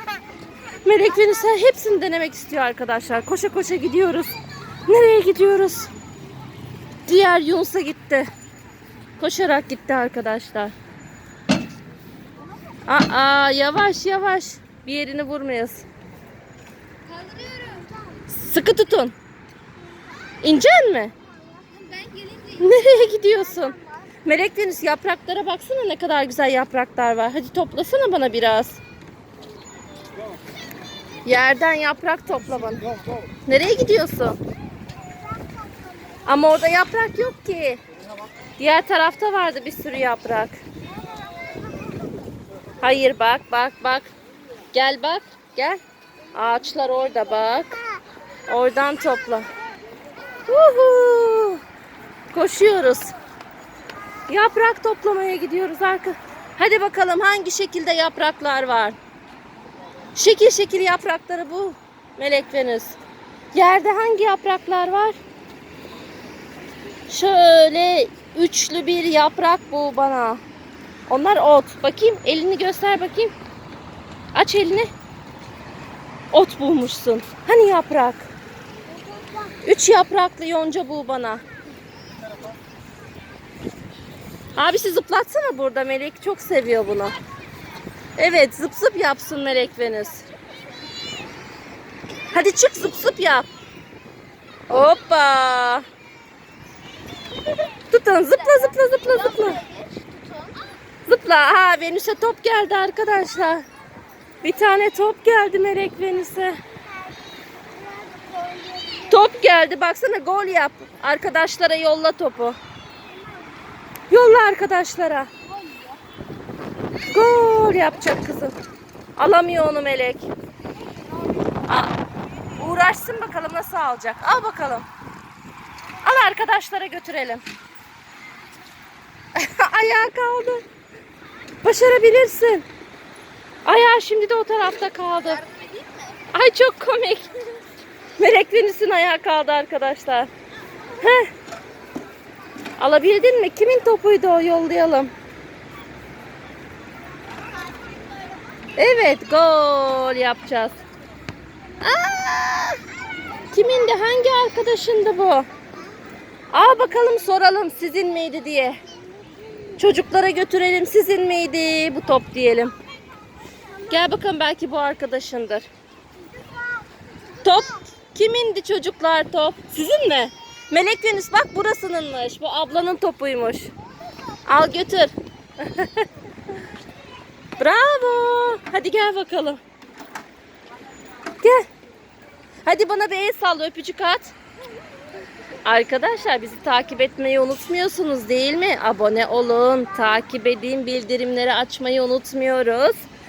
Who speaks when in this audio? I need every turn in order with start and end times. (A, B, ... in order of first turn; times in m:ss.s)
0:00.8-0:04.3 A
0:04.9-0:05.9 A
0:07.1-0:08.3 A
0:09.2-0:10.7 A
0:12.9-0:15.9 A
0:17.1-0:18.2 B
0:18.3-0:19.2 A
0:20.4-0:21.1 A
0:21.6-0:22.7 B
0:22.6-0:28.8 A
0:31.2-0:32.9 A
0:33.5-0:34.4 A
0:36.3-0:37.8 A
0:38.6-0:40.6 A
0:42.8-0:44.1 A
0:44.7-0:45.8 A
0:46.3-0:47.8 A
0:48.5-0:49.5 A
0:50.5-0:51.6 A
0:52.3-0:53.1 A
0:54.3-0:59.0 A
1:00.2-1:03.0 A
1:03.5-1:05.2 A
1:07.1-1:10.4 A
1:11.1-1:13.3 A
1:14.3-1:14.9 A
1:16.3-1:18.3 A
1:19.6-1:21.4 A
1:24.6-1:27.2 A
1:28.2-1:30.2 A
1:32.3-1:33.5 A
1:34.7-1:35.9 A
1:37.7-1:39.6 A
1:39.4-1:40.6 B
1:41.1-1:43.7 A
1:44.4-1:46.6 A
1:47.8-1:49.1 B
1:49.1-1:52.6 A
1:54.1-1:55.3 A
1:55.5-1:56.0 B
1:57.1-1:58.6 A
1:59.2-2:00.3 A
2:01.7-2:01.9 A
2:02.6-2:04.9 A
2:06.0-2:07.4 A
2:09.4-2:10.6 A
2:11.6-2:12.7 A
2:13.6-2:15.4 A
2:15.5-2:16.1 B
2:16.3-2:17.4 A
2:18.2-2:20.3 A
2:21.0-2:21.3 A
2:22.8-2:25.1 A
2:27.9-2:28.4 B
2:28.8-2:30.8 A
2:31.8-2:32.8 A
2:33.5-2:35.5 A
2:36.5-2:38.8 A
2:39.8-2:42.7 A
2:43.9-2:45.7 A
2:47.4-2:53.7 A
2:54.5-2:56.1 A
2:57.6-2:59.6 A
3:01.4-3:01.7 A
3:02.6-3:04.4 A
3:05.6-3:13.0 A